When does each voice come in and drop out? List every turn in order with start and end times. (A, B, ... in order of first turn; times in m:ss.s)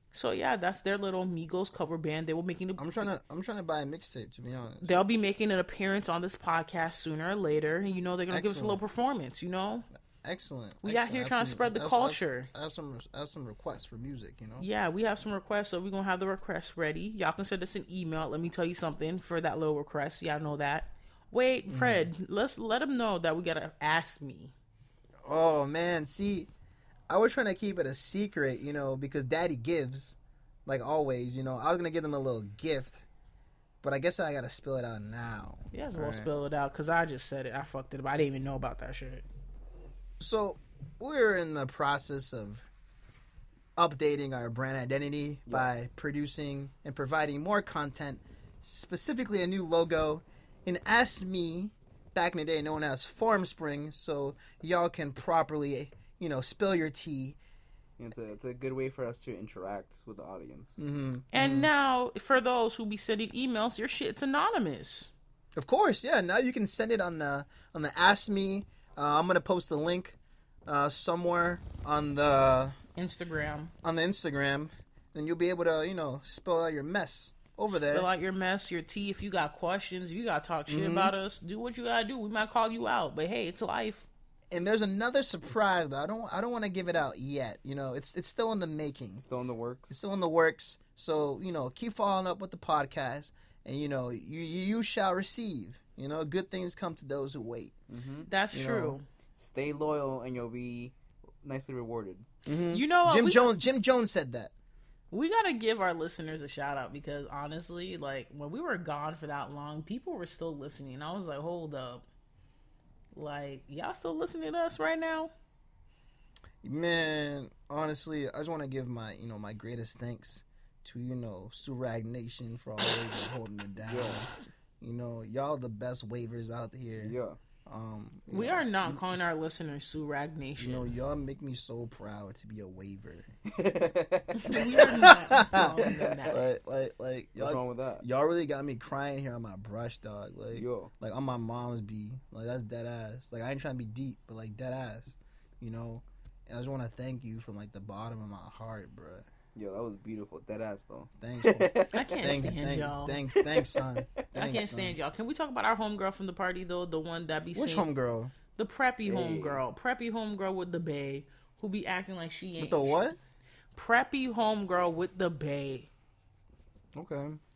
0:00.1-0:03.0 A
0:02.8-0:05.0 B
0:04.8-0:09.8 A
0:08.3-0:08.8 B
0:10.2-0:14.6 B
0:10.8-0:12.5 A
0:14.6-0:24.5 A
0:21.7-0:22.0 B
0:25.2-0:26.5 B
0:27.1-0:33.0 B
0:33.8-0:36.3 B
0:35.7-0:39.2 A
0:40.2-0:42.6 B
0:43.8-0:57.4 B
0:58.0-1:00.8 C
1:00.8-1:01.7 B
1:01.3-1:05.1 A
1:05.6-1:12.8 B
1:13.0-1:13.7 A
1:13.8-1:18.1 B
1:17.7-1:24.1 A
1:20.7-1:21.1 B
1:24.5-1:29.2 B
1:29.2-1:29.9 C
1:29.9-1:37.7 B
1:37.9-1:38.3 C
1:38.3-1:39.0 A
1:38.5-1:39.0 B
1:39.4-1:42.2 C
1:42.4-1:44.5 B
1:42.7-1:43.5 A
1:45.1-1:52.0 A
1:53.1-1:55.3 A
1:56.6-2:04.3 B
2:03.8-2:04.2 C
2:04.8-2:07.2 B
2:07.0-2:07.4 C
2:07.7-2:09.0 B
2:08.3-2:10.9 A
2:10.6-2:13.3 B
2:13.5-2:14.6 C
2:14.4-2:16.4 A
2:14.5-2:29.2 B
2:15.8-2:16.4 C
2:17.4-2:18.0 C
2:20.5-2:20.9 C
2:29.5-2:32.1 C
2:31.2-2:35.0 B
2:31.9-2:33.2 A
2:33.4-2:34.0 C
2:34.3-2:37.8 A
2:37.5-2:38.3 B
2:38.6-2:43.0 A
2:39.0-2:39.6 C
2:42.6-2:43.2 B
2:43.7-2:45.9 A
2:46.9-2:47.4 B